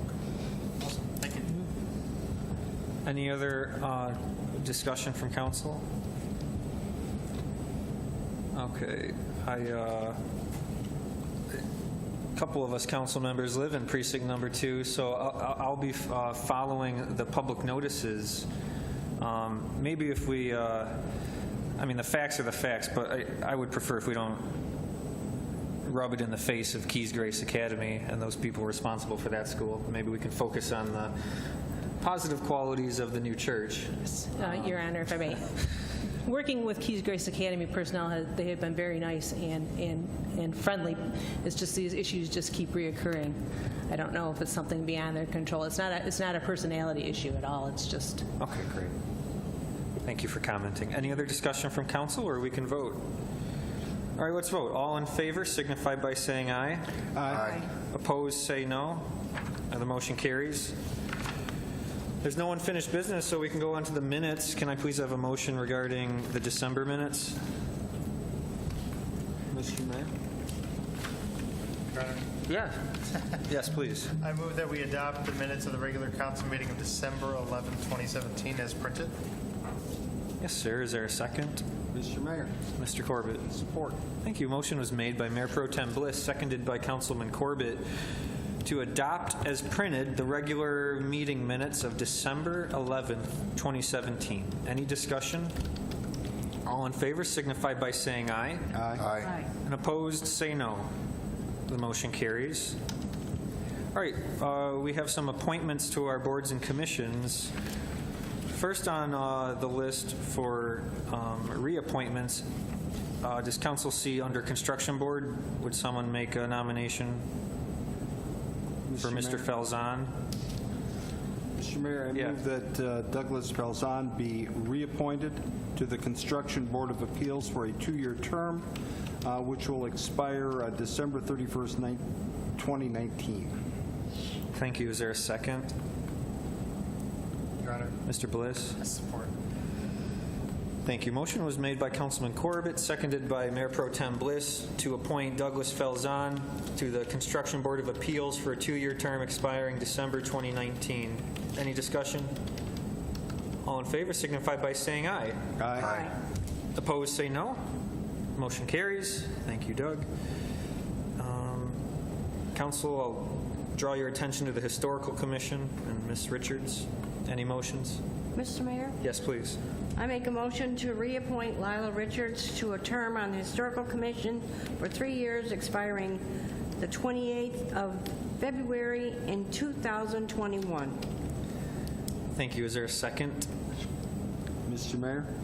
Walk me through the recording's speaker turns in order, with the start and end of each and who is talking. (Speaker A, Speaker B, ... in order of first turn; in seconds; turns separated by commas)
Speaker A: 0.8-1.6, Speaker B: 3.0-5.8, Speaker B: 8.5-10.2, Speaker B: 12.4-18.5, Speaker B: 19.2-21.0, Speaker B: 21.8-24.5, Speaker B: 25.9-31.1, Speaker B: 32.0-34.0, Speaker C: 34.2-35.6, Speaker C: 36.2-43.4, Speaker C: 43.9-48.2, Speaker B: 48.4-49.0, Speaker B: 50.0-53.0, Speaker B: 54.2-59.0, Speaker D: 57.1-57.6, Speaker B: 59.7-60.8, Speaker B: 62.2-67.4, Speaker D: 69.5-70.1, Speaker A: 71.9-72.3, Speaker B: 72.5-72.8, Speaker B: 73.5-74.1, Speaker A: 74.2-79.1, Speaker B: 80.4-81.6, Speaker D: 81.9-82.5, Speaker B: 82.8-83.5, Speaker D: 83.5-84.0, Speaker B: 84.2-87.8, Speaker B: 88.6-95.5, Speaker B: 96.7-98.8, Speaker D: 98.7-99.2, Speaker B: 99.6-100.9, Speaker B: 101.7-102.8, Speaker B: 103.9-107.5, Speaker B: 108.5-112.5, Speaker B: 113.2-117.2, Speaker D: 118.9-119.5, Speaker B: 119.0-120.1, Speaker D: 121.6-128.7, Speaker D: 129.2-132.0, Speaker D: 132.6-133.5, Speaker B: 134.5-135.7, Speaker A: 137.6-137.9, Speaker B: 138.1-138.8, Speaker A: 138.8-139.3, Speaker B: 140.8-152.3, Speaker B: 153.6-155.4, Speaker D: 155.6-156.1, Speaker B: 156.8-157.6, Speaker B: 158.4-160.1, Speaker B: 161.2-161.8, Speaker B: 162.5-168.0, Speaker E: 168.3-169.0, Speaker B: 169.0-169.6, Speaker E: 170.0-176.2, Speaker E: 176.8-181.0, Speaker B: 182.3-183.5, Speaker D: 184.7-185.3